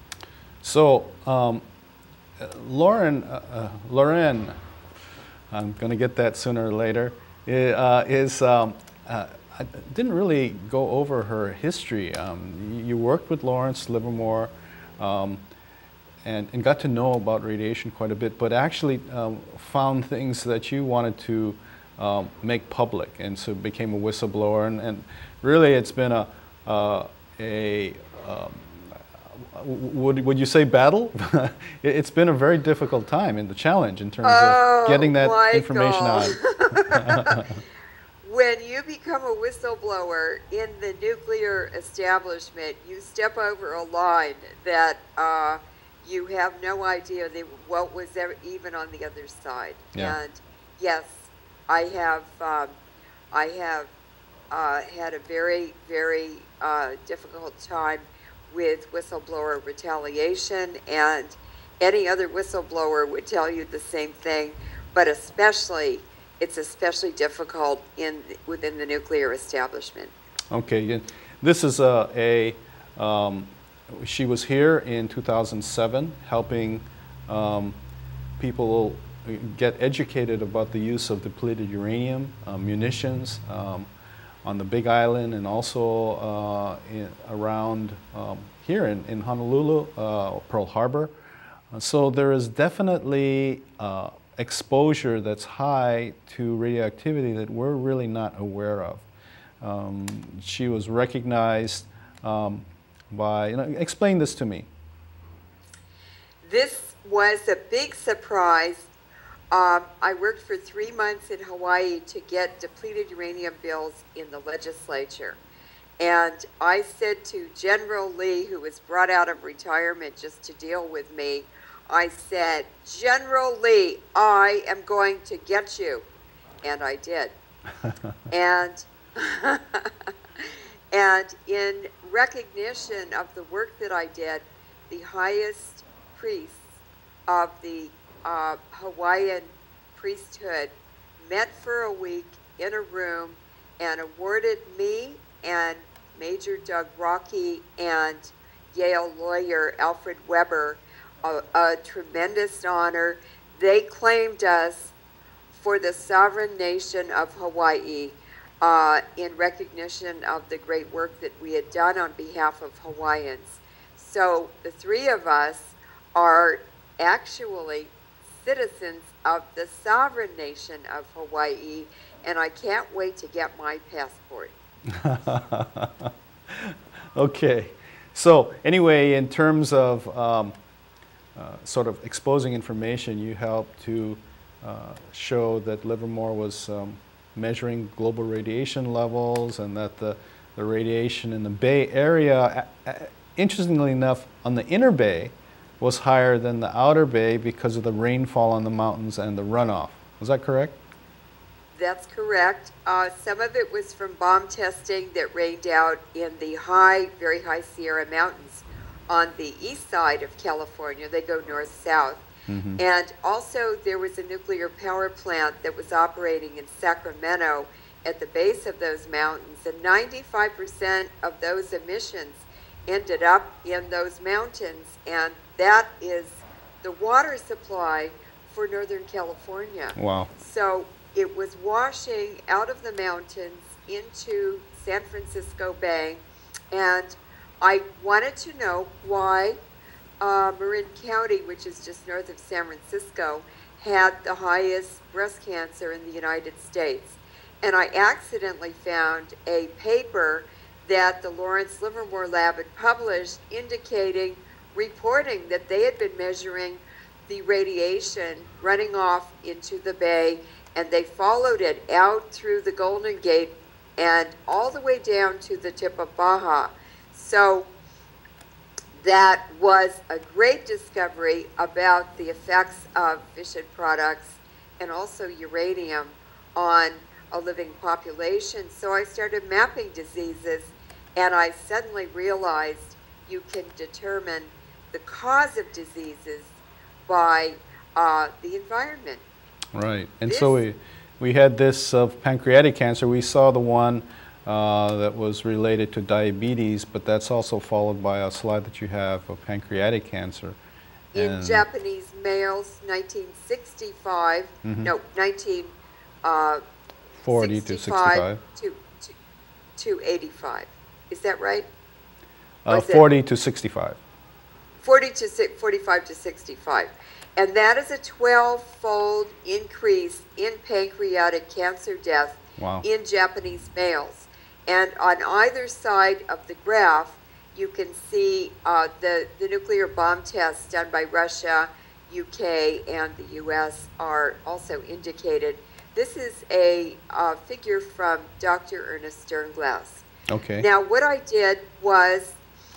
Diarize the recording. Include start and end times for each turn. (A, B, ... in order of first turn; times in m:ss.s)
0:00.6-0:01.6 A
0:02.4-0:04.5 A
0:05.5-0:15.4 A
0:16.2-0:37.6 A
0:34.2-0:37.5 B
0:38.2-0:52.8 B
0:53.3-0:53.9 B
0:54.5-1:10.1 B
1:10.5-1:17.8 A
1:18.4-1:23.9 A
1:24.4-1:31.1 A
1:31.7-1:39.0 A
1:39.6-1:44.7 A
1:46.4-1:48.9 B
1:49.5-1:55.4 B
1:56.0-2:06.0 B
2:06.6-2:07.4 B
2:08.3-2:09.9 B
2:10.4-2:16.7 B
2:17.3-2:34.9 B
2:35.5-2:54.5 B
2:55.0-3:00.5 A
3:01.4-3:20.8 A
3:21.7-3:32.2 B
3:32.5-3:32.8 A
3:32.8-3:59.6 B
3:50.0-3:50.3 A
4:00.2-4:27.7 B
4:28.9-4:49.2 B
4:49.8-5:00.6 A
4:50.3-4:50.6 B
5:01.1-5:01.6 A
5:01.1-5:06.6 B
5:04.6-5:04.9 A
5:07.2-5:08.4 A
5:07.3-5:09.1 B
5:09.8-5:11.7 B
5:12.6-5:14.0 A
5:12.7-5:13.0 B
5:14.8-5:40.1 B
5:22.6-5:22.8 A
5:40.3-5:40.7 A
5:40.6-5:42.4 B